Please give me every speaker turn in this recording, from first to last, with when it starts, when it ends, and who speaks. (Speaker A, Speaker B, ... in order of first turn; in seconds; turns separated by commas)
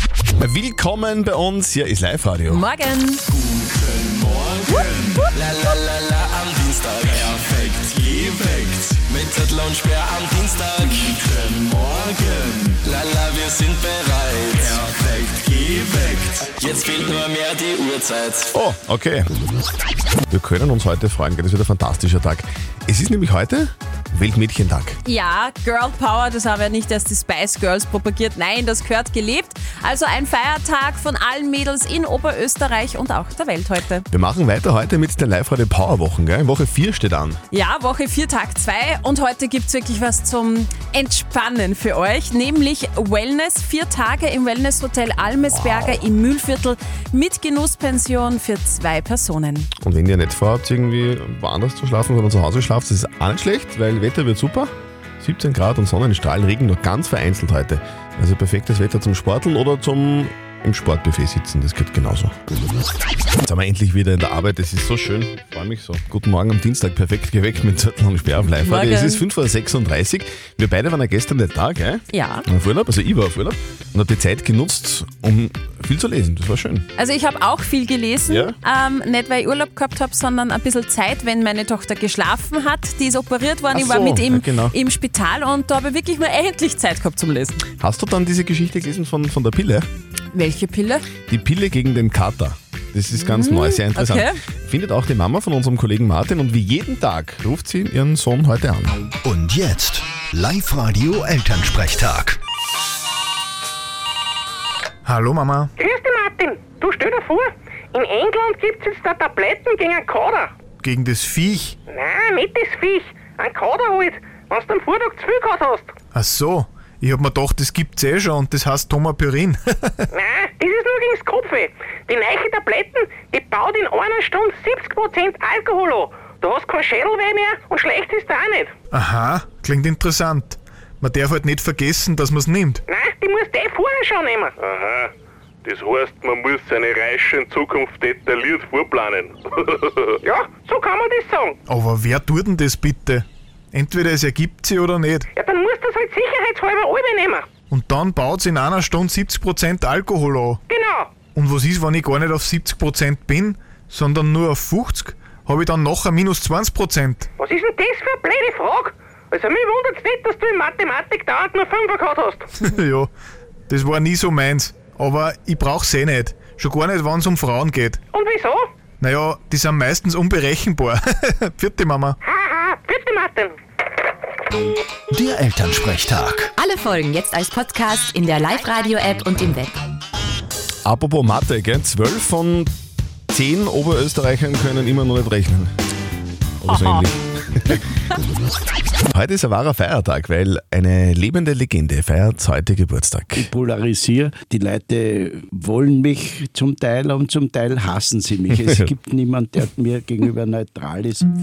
Speaker A: 0.4-2.6, Speaker B: 2.5-3.2, Speaker B: 4.7-5.0, Speaker C: 5.3-10.8, Speaker C: 11.5-18.5, Speaker A: 18.5-19.2, Speaker A: 20.3-25.0, Speaker B: 25.0-34.0, Speaker A: 34.1-37.4, Speaker B: 37.5-49.7, Speaker A: 45.5-46.0, Speaker A: 49.8-62.3, Speaker A: 63.4-76.8, Speaker B: 68.6-69.2, Speaker B: 72.1-72.4, Speaker B: 77.0-87.6, Speaker A: 78.2-78.5, Speaker A: 83.7-84.7, Speaker A: 87.8-89.9, Speaker B: 90.3-91.0, Speaker A: 91.3-99.0, Speaker B: 93.1-94.4, Speaker D: 99.2-102.4, Speaker E: 105.0-105.7, Speaker F: 105.8-110.5, Speaker E: 110.8-111.8, Speaker F: 111.9-116.0, Speaker E: 116.1-120.0, Speaker F: 120.1-128.7, Speaker E: 128.9-132.8, Speaker F: 132.9-134.5, Speaker G: 134.6-135.1, Speaker G: 135.6-139.3, Speaker F: 140.2-141.6, Speaker E: 141.7-145.3, Speaker F: 145.3-147.5, Speaker E: 147.7-150.6, Speaker F: 150.7-151.2, Speaker E: 151.2-157.3, Speaker F: 157.4-162.5, Speaker E: 162.6-163.1, Speaker E: 163.7-168.0, Speaker F: 168.1-168.7, Speaker E: 169.0-172.2, Speaker F: 172.2-173.6, Speaker D: 175.1-176.5, Speaker H: 176.6-179.7, Speaker A: 180.8-182.7, Speaker A: 183.3-185.7, Speaker A: 186.6-187.8, Speaker A: 189.1-193.5, Speaker I: 193.3-201.2, Speaker A: 198.5-198.9